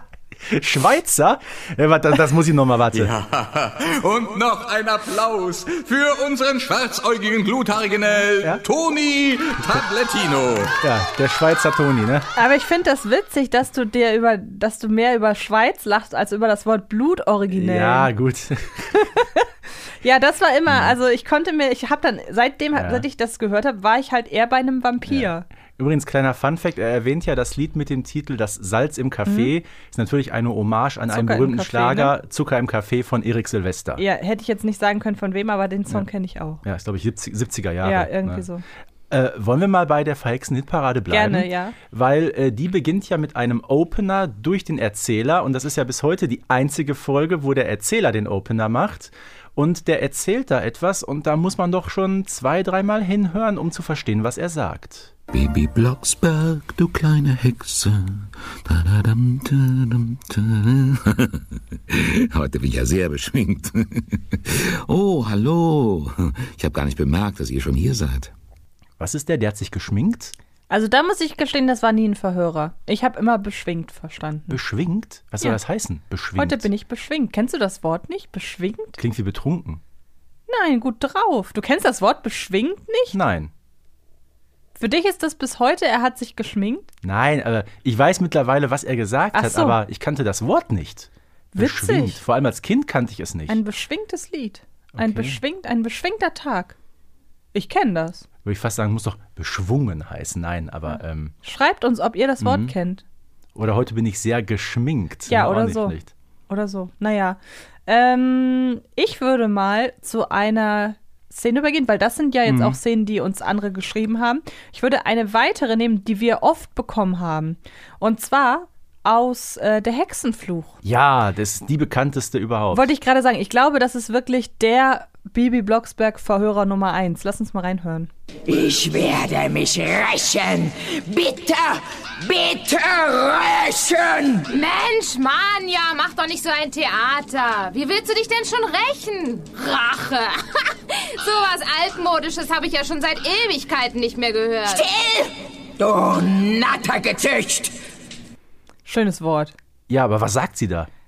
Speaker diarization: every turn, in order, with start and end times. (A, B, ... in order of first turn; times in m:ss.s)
0:00.5-0:03.1 A
0:02.9-0:10.8 B
0:10.8-0:12.3 A
0:12.4-0:18.1 C
0:17.5-0:19.0 A
0:19.0-0:19.4 C
0:20.0-0:25.4 C
0:20.7-0:21.0 A
0:22.8-0:23.0 A
0:25.1-0:34.0 A
0:29.3-0:29.5 C
0:31.1-0:32.2 C
0:34.0-0:36.6 C
0:36.6-0:38.5 A
0:37.8-0:38.6 C
0:39.1-0:55.1 A
0:41.1-0:41.8 C
0:55.3-1:08.3 D
1:09.0-1:10.4 A
1:10.7-1:14.6 C
1:14.5-1:16.7 A
1:16.4-1:19.0 C
1:19.0-1:19.8 A
1:20.5-1:23.2 C
1:23.1-1:23.5 A
1:24.8-1:26.9 C
1:27.0-1:33.6 A
1:29.3-1:29.8 C
1:31.5-1:32.2 C
1:33.5-1:36.8 C
1:34.9-1:35.4 A
1:37.5-1:38.2 C
1:38.4-1:41.3 A
1:41.4-1:43.0 C
1:42.4-1:42.7 A
1:43.6-1:46.1 A
1:45.3-1:46.0 C
1:46.5-2:00.8 C
1:52.4-1:52.8 A
2:00.8-2:02.9 A
2:02.7-2:08.1 C
2:08.5-2:14.5 E
2:14.5-2:24.9 F
2:24.7-2:27.7 E
2:28.9-2:29.6 C
2:29.9-2:30.9 A